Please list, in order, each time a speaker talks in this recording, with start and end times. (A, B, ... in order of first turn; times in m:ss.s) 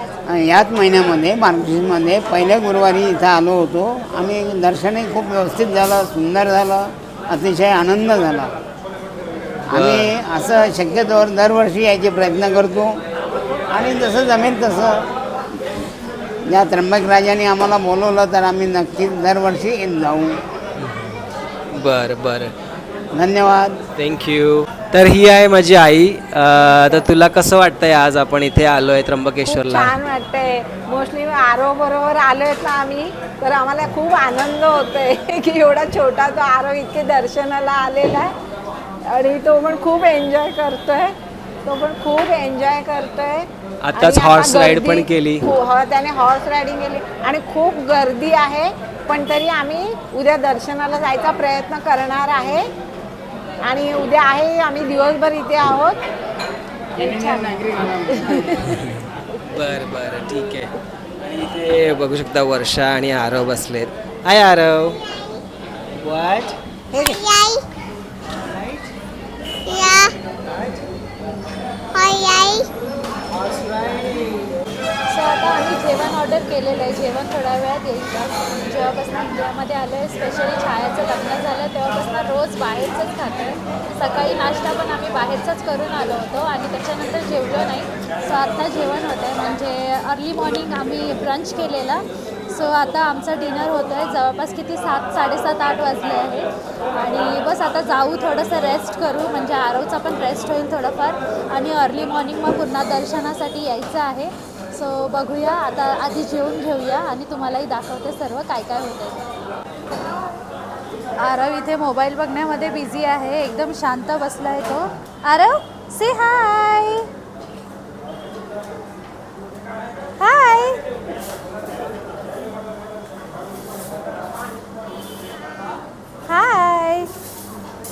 0:00.3-0:08.5 A
0:09.7-0:10.1 B
0:09.7-0:12.9 A
0:13.7-0:15.0 A
0:16.5-0:20.4 A
0:20.8-0:22.5 B
0:23.1-0:23.8 A
0:23.9-0:30.0 B
0:29.4-0:38.3 C
0:39.1-0:52.6 C
0:43.8-0:45.5 B
0:53.6-0:56.0 C
0:57.0-0:58.8 C
0:58.6-1:05.0 B
1:06.0-1:06.6 B
1:06.9-1:07.6 C
1:08.5-1:08.9 B
1:10.5-1:10.8 B
1:13.3-1:14.5 B
1:15.1-1:49.2 D
1:51.2-1:57.1 D
2:00.2-2:00.8 D
2:06.3-2:07.1 D